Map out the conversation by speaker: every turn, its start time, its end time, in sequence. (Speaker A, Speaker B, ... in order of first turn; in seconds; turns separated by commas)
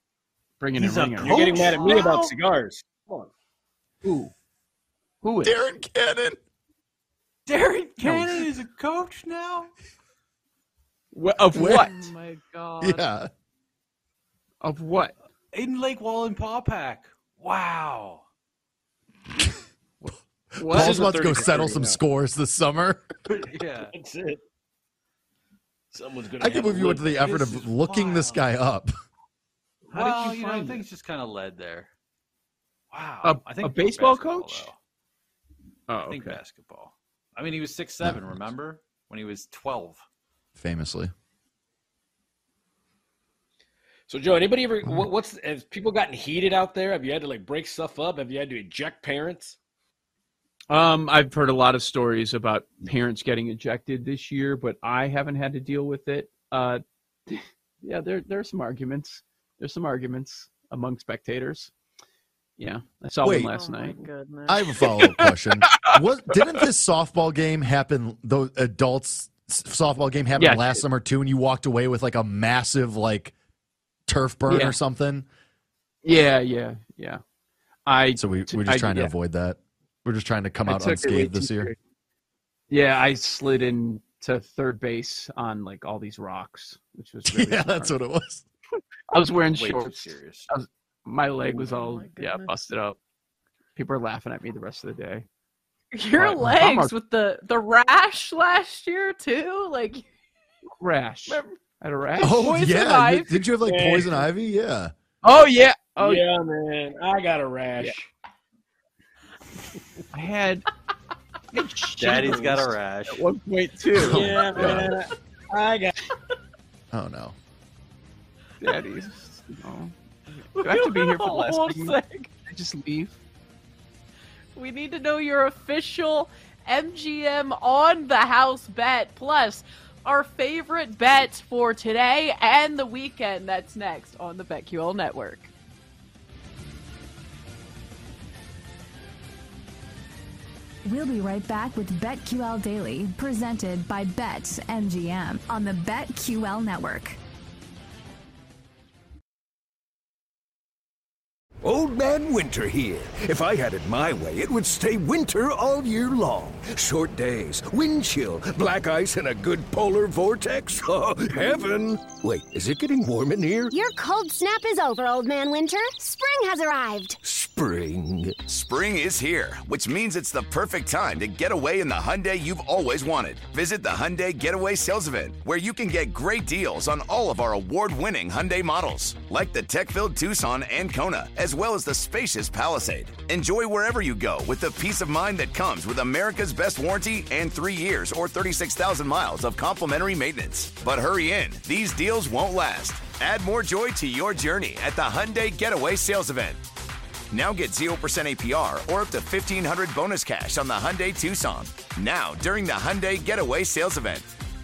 Speaker A: 0.6-1.5, Speaker B: 0.8-2.3, Speaker C: 1.2-3.3, Speaker A: 4.0-4.3, Speaker A: 5.2-5.6, Speaker D: 5.4-6.4, Speaker B: 7.5-9.7, Speaker A: 8.0-8.5, Speaker A: 11.1-12.1, Speaker D: 11.5-12.1, Speaker E: 11.7-13.1, Speaker D: 12.8-13.3, Speaker A: 14.6-15.2, Speaker B: 15.5-18.2, Speaker A: 20.6-21.0, Speaker D: 20.6-23.0, Speaker C: 20.7-22.0, Speaker B: 23.3-23.9, Speaker C: 23.9-24.4, Speaker C: 25.9-28.3, Speaker D: 26.4-28.9, Speaker B: 28.0-28.4, Speaker C: 29.9-30.8, Speaker B: 29.9-31.9, Speaker B: 32.9-34.8, Speaker A: 33.2-34.7, Speaker A: 35.9-36.4, Speaker B: 36.0-40.0, Speaker D: 38.0-38.4, Speaker D: 40.6-41.1, Speaker C: 44.1-49.6, Speaker A: 50.7-61.7, Speaker A: 62.6-64.0, Speaker D: 63.2-63.5, Speaker E: 63.5-64.6, Speaker D: 64.5-73.3, Speaker A: 70.3-70.8, Speaker D: 74.1-75.3, Speaker A: 74.5-74.8, Speaker A: 76.0-77.2, Speaker A: 77.9-79.1, Speaker D: 78.2-81.7, Speaker A: 80.7-81.8, Speaker A: 82.7-88.0, Speaker D: 87.3-88.5, Speaker A: 89.1-93.0, Speaker B: 89.3-90.5, Speaker E: 91.7-92.5, Speaker A: 93.8-95.3, Speaker E: 95.9-100.0, Speaker A: 96.2-96.9, Speaker A: 100.8-102.4, Speaker E: 102.2-103.5, Speaker D: 102.2-104.9, Speaker C: 103.6-104.2, Speaker A: 105.2-106.2, Speaker C: 106.0-108.1, Speaker A: 110.1-110.7, Speaker A: 111.5-114.8, Speaker B: 112.0-113.2, Speaker D: 114.0-114.9, Speaker C: 114.1-116.0, Speaker D: 116.9-117.4, Speaker A: 118.6-123.2, Speaker E: 120.6-122.3, Speaker E: 124.6-135.5, Speaker F: 140.8-147.2, Speaker G: 151.6-163.8, Speaker H: 163.7-167.2, Speaker G: 167.2-168.4, Speaker I: 168.4-196.6, Speaker I: 197.3-204.3